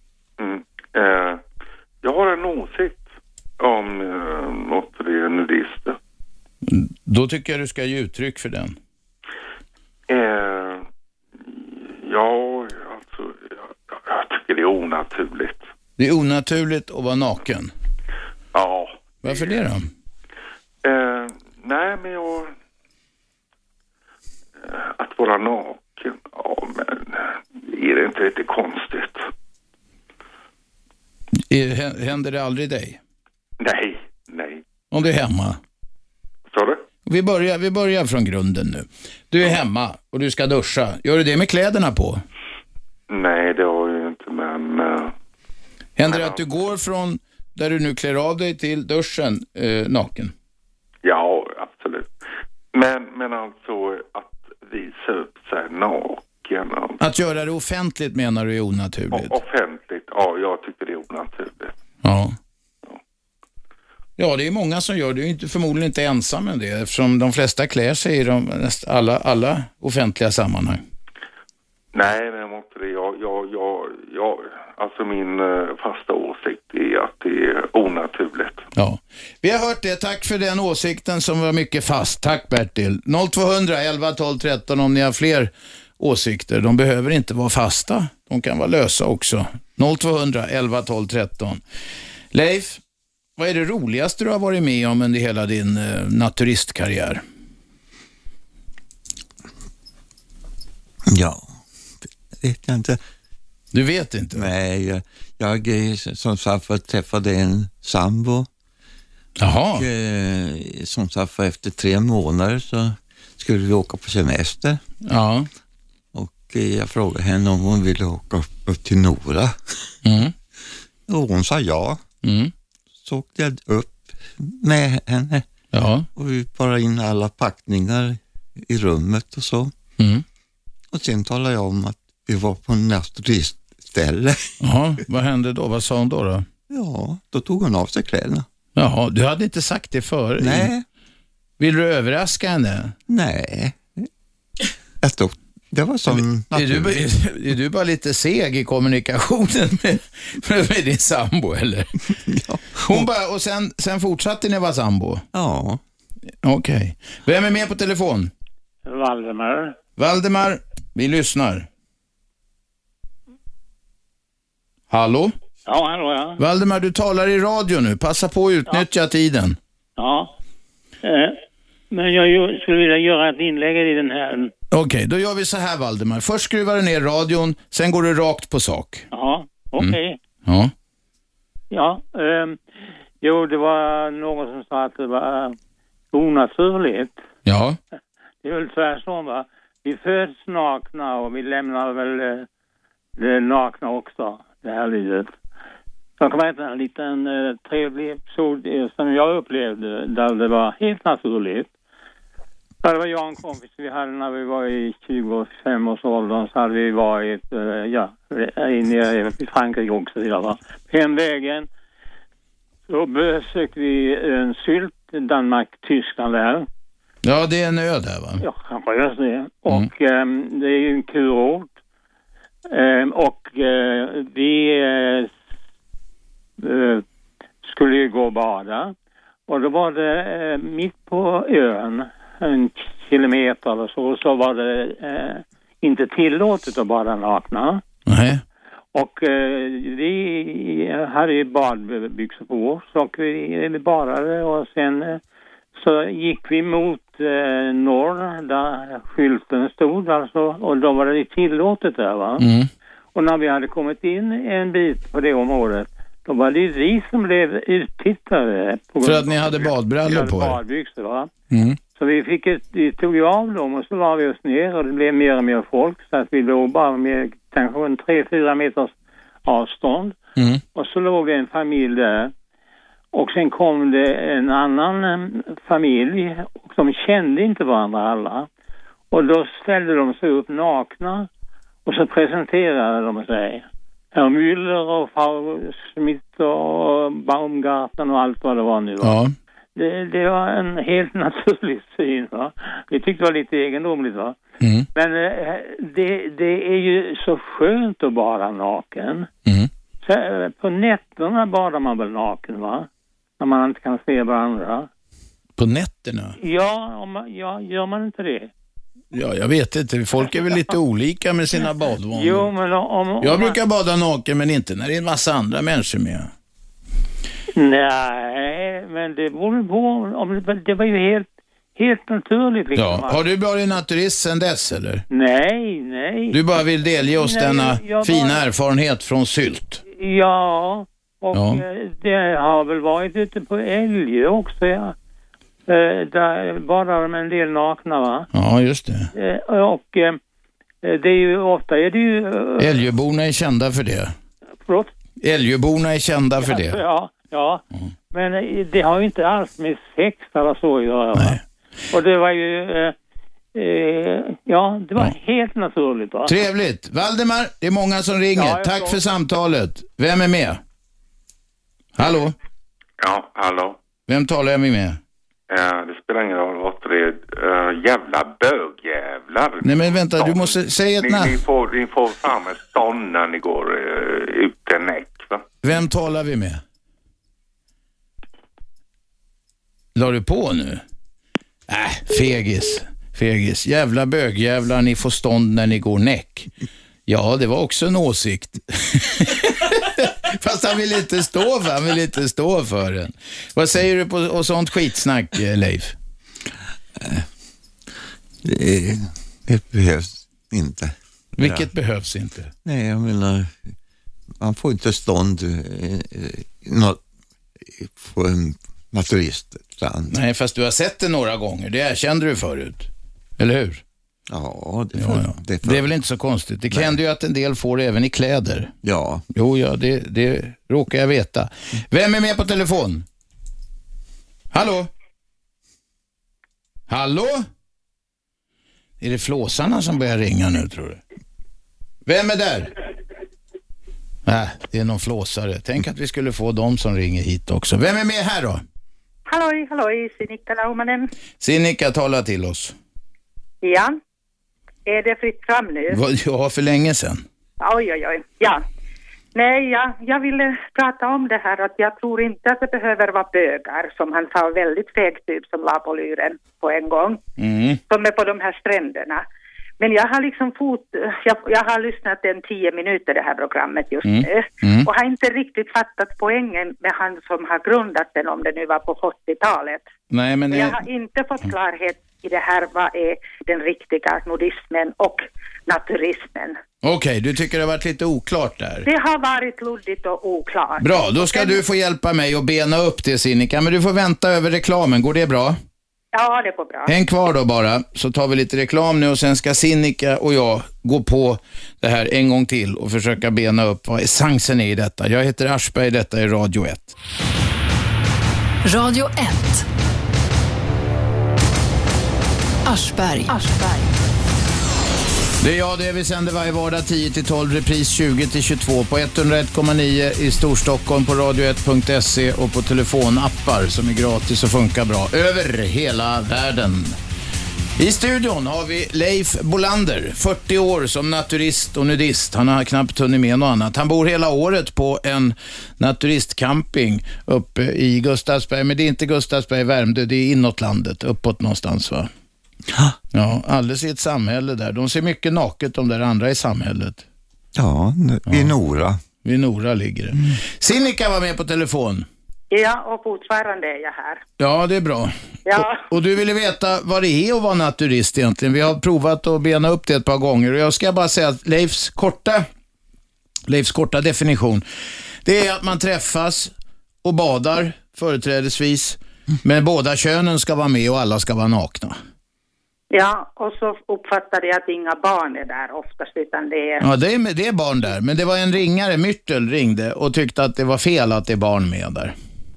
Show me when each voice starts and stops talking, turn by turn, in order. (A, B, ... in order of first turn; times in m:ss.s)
0:00.4-0:01.4 A
0:02.0-0:03.0 A
0:03.6-0:06.0 A
0:06.6-0:08.8 B
0:10.1-0:10.8 A
0:11.4-0:15.7 A
0:16.0-0:17.7 B
0:18.5-0:19.5 A
0:19.2-0:19.9 B
0:20.8-0:22.5 A
0:24.6-0:29.2 A
0:31.5-0:33.0 B
0:33.6-0:34.6 A
0:34.9-0:35.6 B
0:36.5-0:36.8 A
0:37.1-0:42.2 B
0:43.1-0:45.1 A
0:46.0-0:50.3 B
0:46.1-0:46.4 A
0:51.0-0:52.1 A
0:52.7-0:57.0 A
0:57.0-0:59.4 B
0:59.1-1:01.7 A
1:02.0-1:02.4 B
1:04.2-1:10.8 B
1:11.9-1:18.7 A
1:18.8-1:31.6 B
1:32.3-1:32.8 B
1:33.4-1:37.2 B
1:41.1-1:41.5 C
1:42.4-1:43.0 C
1:43.7-1:44.5 B
1:44.3-1:48.5 C
1:49.4-1:49.9 B
1:49.8-1:54.8 C
1:55.0-1:55.5 B
1:56.1-2:00.0 C
2:00.0-2:00.3 B
2:01.1-2:02.0 C
2:02.2-2:02.5 B
2:03.0-2:05.5 C
2:05.7-2:06.1 B
2:06.2-2:09.7 C
2:10.0-2:10.2 B
2:10.9-2:14.6 C
2:14.6-2:16.5 B
2:16.7-2:18.5 C
2:18.8-2:20.7 B
2:20.4-2:20.8 C
2:21.6-2:23.0 B
2:23.1-2:24.1 C
2:25.0-2:27.0 C
2:26.1-2:32.0 B
2:32.1-2:33.1 C
2:32.9-2:35.2 B
2:35.3-2:35.8 C
2:36.4-2:38.3 B
2:38.9-2:39.8 D
2:40.0-2:41.7 B
2:44.9-2:45.3 B
2:45.7-2:46.4 D
2:46.4-2:49.6 B
2:50.0-2:50.3 D
2:51.0-2:51.4 D
2:51.9-2:54.5 D
2:54.7-2:59.1 B
2:59.1-3:00.2 D
2:59.8-3:00.7 B
3:01.7-3:02.6 D
3:03.2-3:05.6 D
3:06.1-3:07.2 D
3:07.5-3:07.8 B
3:08.4-3:12.5 D
3:13.2-3:15.4 D
3:16.2-3:21.7 D
3:22.8-3:31.7 D
3:32.9-3:36.7 D
3:37.2-3:38.4 B
3:38.4-3:41.7 D
3:42.7-3:45.3 D
3:46.6-3:47.0 D
3:47.6-3:49.0 D
3:49.5-3:57.8 D
3:58.1-3:58.4 B
3:58.9-4:05.2 D
4:05.7-4:12.5 D
4:12.4-4:12.7 B
4:13.1-4:21.3 D
4:19.0-4:20.6 B
4:21.5-4:21.8 B
4:21.9-4:28.9 D
4:29.4-4:32.3 D
4:30.4-4:30.6 B
4:33.1-4:38.5 D
4:39.1-4:41.3 D
4:41.8-4:49.2 D
4:49.0-4:49.3 B
4:49.8-4:54.4 D
4:54.6-4:54.9 B
4:55.0-4:59.3 D
5:00.0-5:02.9 D
5:03.4-5:04.9 D
5:05.6-5:06.4 B
5:06.4-5:08.5 D
5:09.1-5:12.5 B
5:10.2-5:10.6 D
5:12.1-5:13.6 D
5:13.2-5:16.3 B
5:17.5-5:23.2 D
5:22.8-5:25.0 B
5:25.1-5:26.4 D
5:26.3-5:29.8 B
5:27.0-5:28.4 D
5:29.9-5:35.0 D
5:31.3-5:31.6 B
5:35.7-5:38.3 D
5:38.3-5:39.1 B
5:39.1-5:40.2 D
5:40.8-5:42.8 D
5:42.6-5:44.1 B
5:44.6-5:44.9 D
5:45.2-5:46.8 B
5:46.4-5:51.4 D
5:51.9-5:53.0 D
5:53.5-5:56.4 D
5:56.3-6:00.6 B
5:58.4-5:59.0 D
6:02.0-6:02.4 B
6:03.0-6:03.8 A
6:04.1-6:05.0 B
6:05.5-6:15.4 A
6:09.6-6:11.4 B
6:15.6-6:16.6 B
6:20.0-6:20.8 B
6:21.7-6:26.5 B
6:27.1-6:36.0 B
6:37.0-6:37.3 C
6:38.4-6:41.7 C
6:41.4-6:42.5 B
6:42.6-6:43.7 C
6:44.4-6:47.0 C
6:47.6-6:50.2 C
6:50.1-6:53.8 B
6:54.3-6:55.9 C
6:55.0-6:58.7 B
6:56.7-6:57.0 C
6:58.8-6:59.3 C
6:59.3-7:03.1 B
7:04.5-7:04.9 B
7:06.9-7:07.4 B
7:09.0-7:11.0 B
7:12.1-7:12.7 B
7:14.3-7:18.6 B
7:19.3-7:21.1 E
7:21.4-7:22.8 B
7:23.6-7:24.0 E
7:24.9-7:26.0 E
7:25.9-7:27.2 B
7:27.6-7:28.6 E
7:29.4-7:37.2 E
7:37.4-7:37.8 B
7:37.9-7:39.2 E
7:39.8-7:49.8 E
7:44.0-7:44.9 B
7:50.1-7:50.8 B
7:50.5-7:56.6 E
7:56.8-7:58.9 B
7:58.8-8:01.6 E
8:00.8-8:05.6 B
8:06.1-8:06.9 E
8:06.9-8:17.0 B
8:18.6-8:19.6 F
8:22.6-8:23.9 F
8:25.4-8:37.0 B
8:37.8-8:52.1 B
8:52.7-8:53.0 C
8:53.1-8:57.0 B
8:57.6-8:59.0 C
8:58.3-8:58.5 B
8:59.2-9:02.1 B
9:02.5-9:04.2 E
9:04.4-9:12.5 B
9:05.5-9:05.8 E
9:13.5-9:14.6 B
9:15.2-9:16.5 B
9:17.0-9:22.0 B
9:22.9-9:26.8 E
9:26.8-9:32.2 B